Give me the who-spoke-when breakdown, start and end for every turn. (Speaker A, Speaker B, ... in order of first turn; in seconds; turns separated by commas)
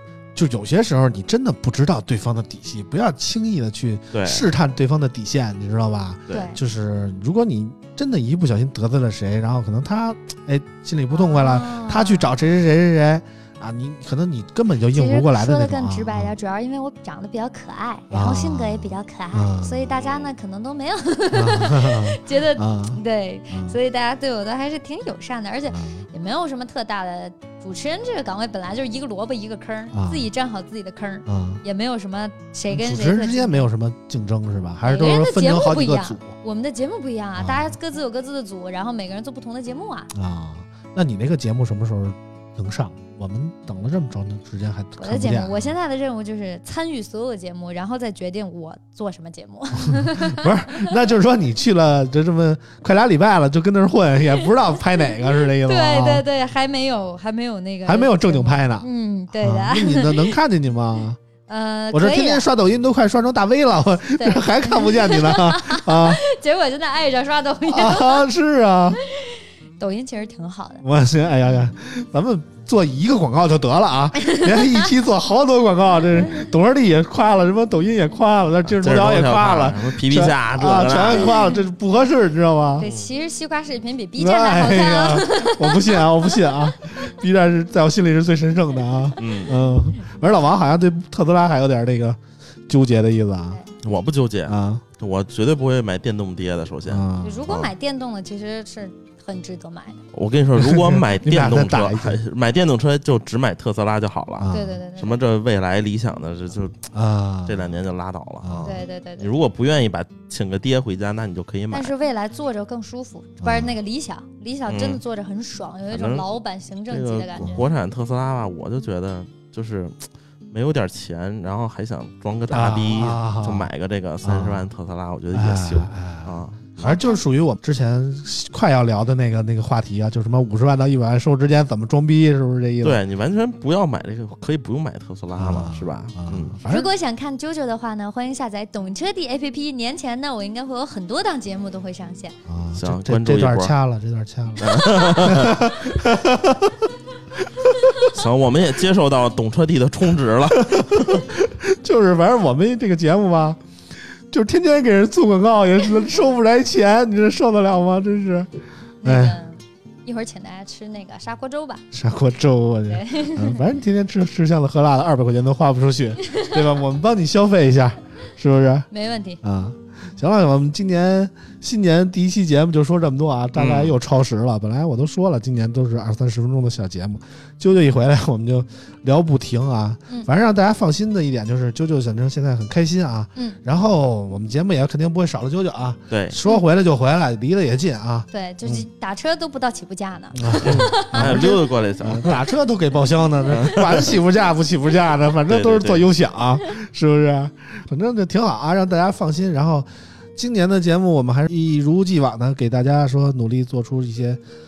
Speaker A: 0.3-16.3, Speaker B: 4.1-4.5, Speaker C: 6.3-6.6, Speaker C: 11.1-12.3, Speaker C: 14.9-33.7, Speaker A: 18.1-19.9, Speaker B: 19.9-20.3, Speaker A: 21.3-23.0, Speaker A: 23.5-23.8, Speaker A: 25.7-26.1, Speaker A: 29.9-30.3, Speaker A: 31.3-31.6, Speaker A: 32.7-36.3, Speaker C: 34.8-40.1, Speaker A: 37.4-37.8, Speaker A: 40.1-45.7, Speaker C: 45.0-50.9, Speaker A: 49.8-56.3, Speaker C: 55.3-60.3, Speaker A: 57.9-61.2, Speaker C: 61.5-62.5, Speaker A: 61.9-66.2, Speaker C: 64.2-68.3, Speaker A: 67.7-69.0, Speaker C: 69.0-70.8, Speaker A: 70.8-82.9, Speaker C: 74.2-74.9, Speaker B: 78.7-81.4, Speaker C: 82.8-86.5, Speaker B: 82.8-83.1, Speaker A: 84.2-93.6, Speaker B: 89.2-89.6, Speaker B: 93.8-97.7, Speaker A: 94.5-94.8, Speaker A: 96.9-97.5, Speaker C: 97.2-100.0, Speaker B: 100.1-106.9, Speaker A: 100.6-102.2, Speaker A: 104.4-104.8, Speaker C: 104.5-105.2, Speaker A: 106.9-107.8, Speaker B: 107.5-111.9, Speaker A: 108.4-108.8, Speaker C: 108.6-109.3, Speaker C: 111.7-117.7, Speaker A: 113.4-113.8, Speaker B: 114.7-115.0, Speaker B: 115.9-116.3, Speaker B: 116.9-127.0, Speaker A: 117.4-117.7, Speaker A: 122.5-123.7, Speaker A: 124.2-124.7, Speaker A: 125.3-133.0, Speaker C: 126.8-127.2, Speaker B: 132.8-136.6, Speaker A: 135.4-136.9, Speaker C: 136.7-142.4, Speaker A: 142.5-146.8, Speaker B: 142.8-143.7, Speaker B: 144.6-145.7, Speaker B: 148.1-151.3, Speaker A: 150.5-153.6, Speaker A: 154.3-158.5, Speaker A: 159.0-159.4, Speaker C: 159.0-161.9, Speaker A: 161.9-168.9, Speaker C: 162.9-163.7, Speaker C: 168.9-169.4, Speaker A: 169.4-188.9, Speaker B: 173.6-173.9, Speaker B: 186.1-186.4, Speaker C: 188.3-191.5, Speaker A: 190.4-204.4, Speaker B: 190.6-192.4, Speaker B: 193.5-194.2, Speaker B: 195.5-196.1